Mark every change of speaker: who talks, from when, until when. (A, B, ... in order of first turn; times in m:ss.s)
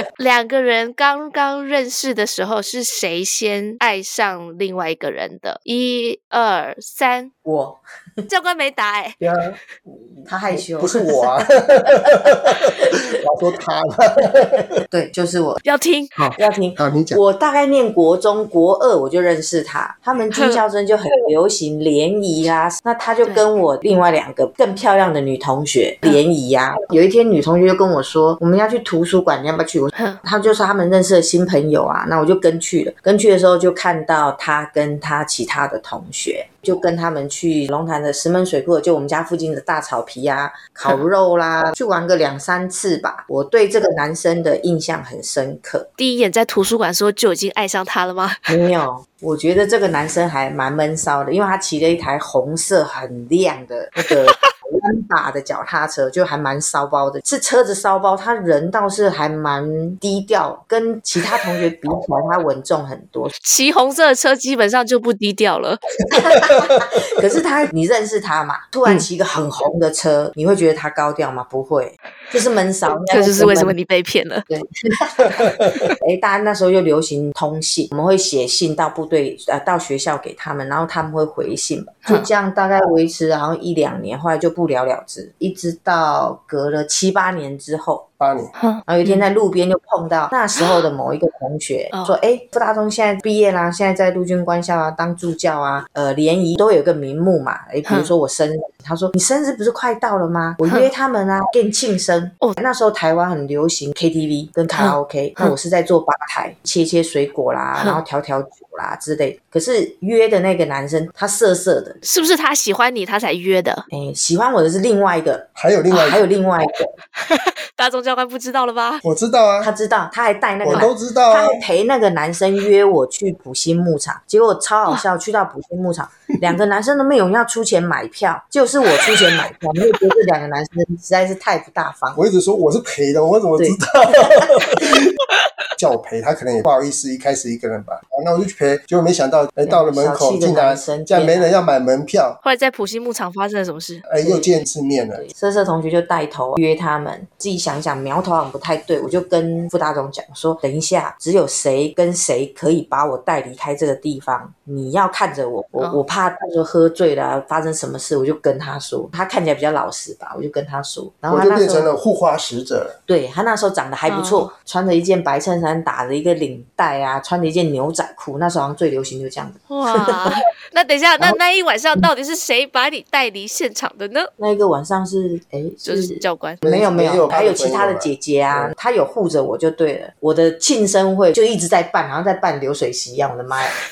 0:00.2-0:07.3 A
0:07.4-0:08.2 B
0:08.3-0:09.2 A
0:09.2-0:14.8 C
0:10.3-0:11.3 B
0:14.9-0:15.6 B
0:15.6-0:16.1 A
0:16.2-0:45.9 B
0:16.8-0:17.2 C
0:20.3-0:20.6 A
0:29.9-0:30.2 A
0:46.0-0:48.5 A
0:48.5-1:03.3 B
0:54.0-0:54.5 A
1:03.4-1:05.8 A
1:06.1-1:13.7 B
1:06.1-1:06.8 C
1:13.1-1:14.4 A
1:14.5-1:28.1 B
1:15.3-1:15.9 C
1:28.2-1:28.5 C
1:28.6-1:29.2 A
1:28.9-1:52.0 B
1:37.8-1:38.1 A
1:40.6-1:40.9 A
1:44.7-1:45.5 A
1:47.8-1:48.0 A
1:52.0-1:53.8 A
1:53.9-1:56.9 B
1:55.5-1:56.2 C
1:57.2-1:59.0 A
1:59.0-1:59.7 C
1:59.6-2:12.2 B
2:00.6-2:01.6 C
2:12.2-2:15.2 C
2:13.6-2:14.8 B
2:15.8-2:22.4 C
2:19.6-2:21.6 B
2:22.4-2:24.0 A
2:24.0-2:25.2 C
2:24.2-2:24.6 B
2:25.2-2:41.9 B
2:35.8-2:36.0 A
2:41.3-2:43.0 C
2:43.1-2:50.4 B
2:44.1-2:44.5 A
2:49.7-2:54.3 A
2:54.4-3:03.8 B
2:55.8-2:56.6 A
2:56.6-2:58.7 C